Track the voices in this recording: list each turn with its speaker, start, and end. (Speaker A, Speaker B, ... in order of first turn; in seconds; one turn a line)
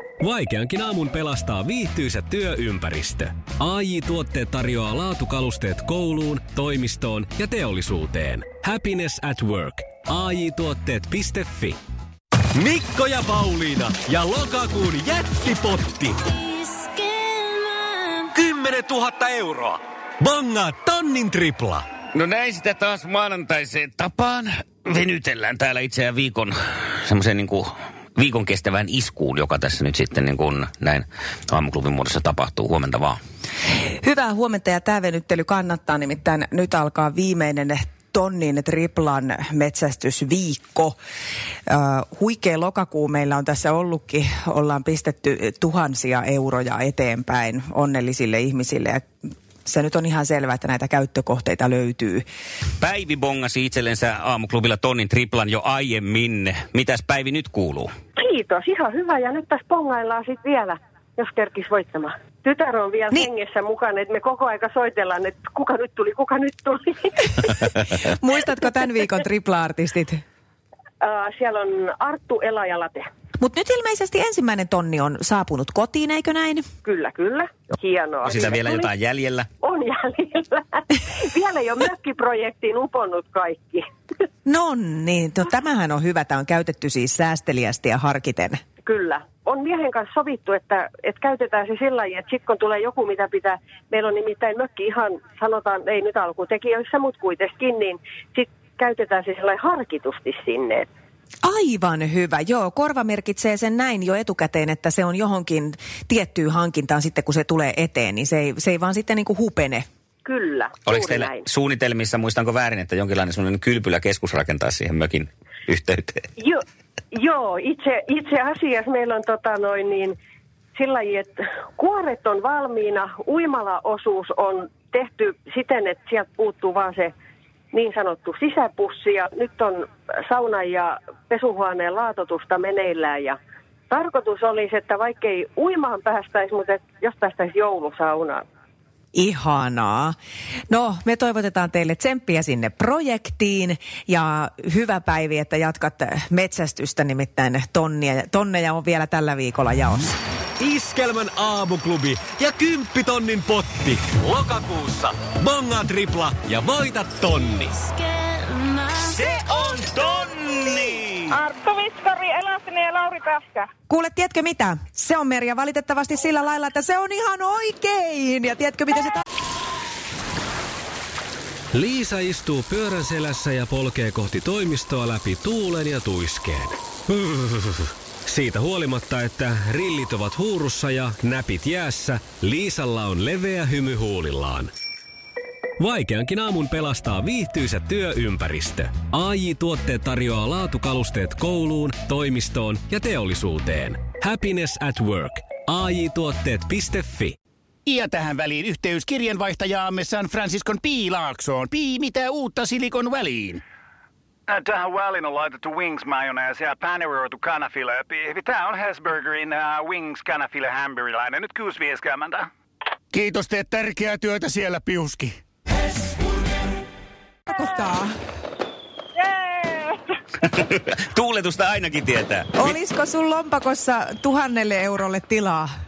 Speaker A: 0.2-11.8
Speaker A: 12.6-16.2
Speaker A: 18.3-21.9
Speaker B: 22.1-33.2
Speaker C: 34.0-41.0
Speaker C: 41.7-49.1
Speaker C: 49.6-52.2
Speaker B: 52.8-57.9
Speaker D: 58.2-67.4
Speaker C: 67.9-70.2
Speaker D: 71.0-73.1
Speaker C: 73.4-76.7
Speaker D: 76.8-78.9
Speaker B: 78.2-79.5
Speaker D: 79.6-83.8
Speaker C: 84.5-88.6
Speaker D: 88.8-100.9
Speaker C: 101.4-109.8
Speaker D: 110.2-111.5
Speaker B: 110.9-116.2
Speaker D: 117.1-120.1
Speaker D: 120.8-127.1
Speaker D: 127.7-133.4
Speaker D: 133.9-138.4
Speaker C: 139.1-140.2
Speaker C: 140.7-150.1
Speaker A: 150.6-157.9
Speaker B: 159.1-161.1
Speaker E: 161.3-163.7
Speaker C: 163.9-169.2
Speaker A: 171.7-184.7
Speaker A: 185.8-197.4
Speaker F: 197.9-203.6
Speaker G: 204.5-212.5
Speaker F: 213.2-215.3
Speaker C: 217.5-218.1
Speaker E: 217.5-217.8
Speaker E: 219.2-220.1
Speaker B: 220.4-222.8
Speaker C: 222.6-225.7